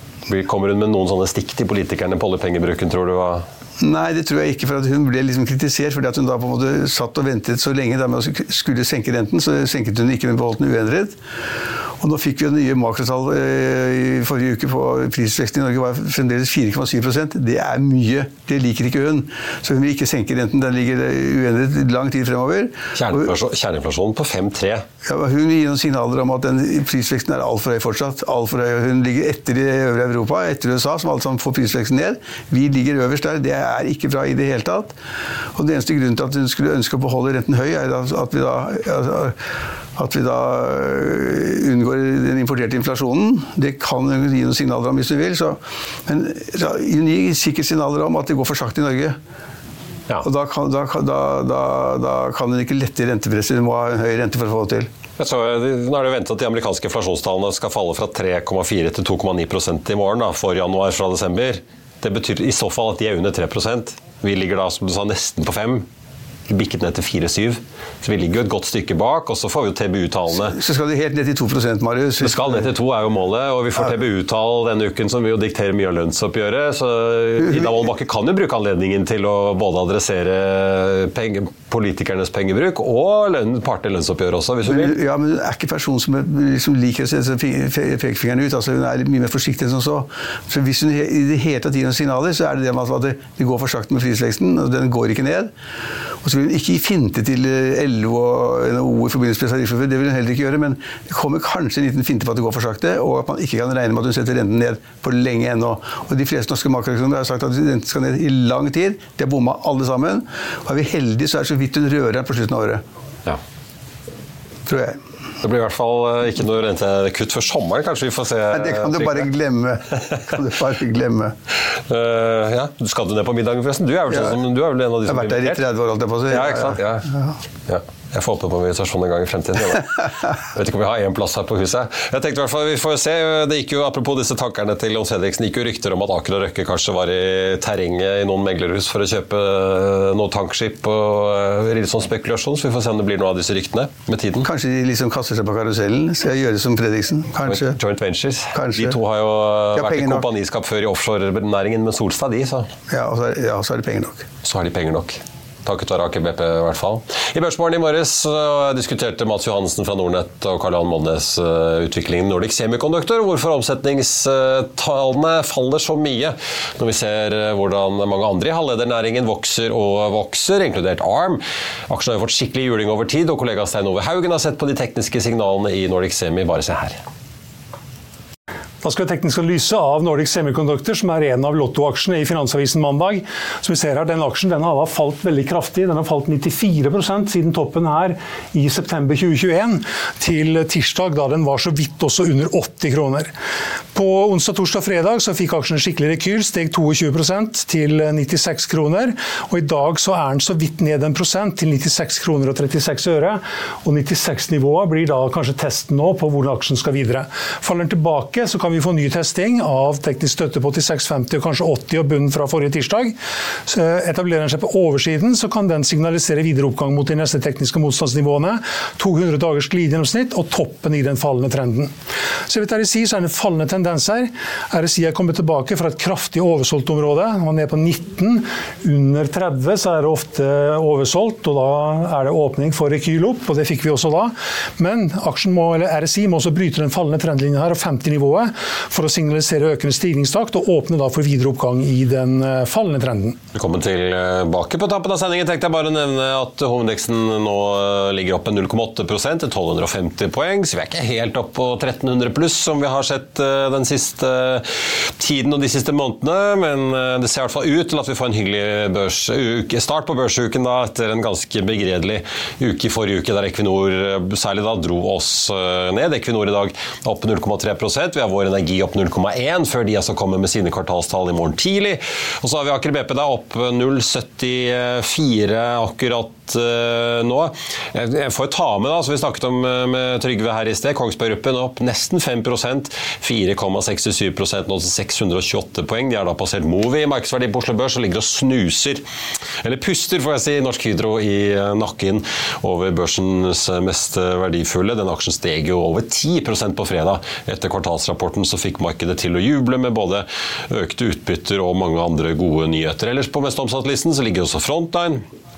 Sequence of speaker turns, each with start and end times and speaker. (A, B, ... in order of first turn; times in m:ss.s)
0:00.3-0:03.4 A
0:03.8-0:11.2 B
0:12.0-0:23.3 B
0:22.9-0:24.8 A
0:25.0-0:34.9 B
0:35.5-0:39.4 B
0:40.0-0:49.2 B
0:50.2-0:54.9 B
0:55.2-1:05.8 A
1:06.5-1:10.6 A
1:10.3-1:12.7 B
1:12.2-1:25.0 A
1:17.4-1:17.8 B
1:24.6-1:35.5 B
1:36.2-1:52.8 B
1:54.7-1:55.0 B
1:55.4-1:59.3 A
1:58.5-2:01.3 B
2:01.9-2:05.6 A
2:04.1-2:04.4 B
2:05.0-2:07.4 B
2:06.3-2:07.1 A
2:07.7-2:24.5 A
2:24.4-2:27.8 B
2:27.4-2:32.7 A
2:28.5-2:29.0 B
2:29.7-2:30.3 B
2:32.9-2:34.3 B
2:34.4-2:57.0 A
2:58.8-3:13.3 C
3:13.9-3:41.9 C
3:42.5-4:03.4 C
4:03.5-4:14.7 A
4:15.2-4:49.0 A
4:49.6-5:05.2 A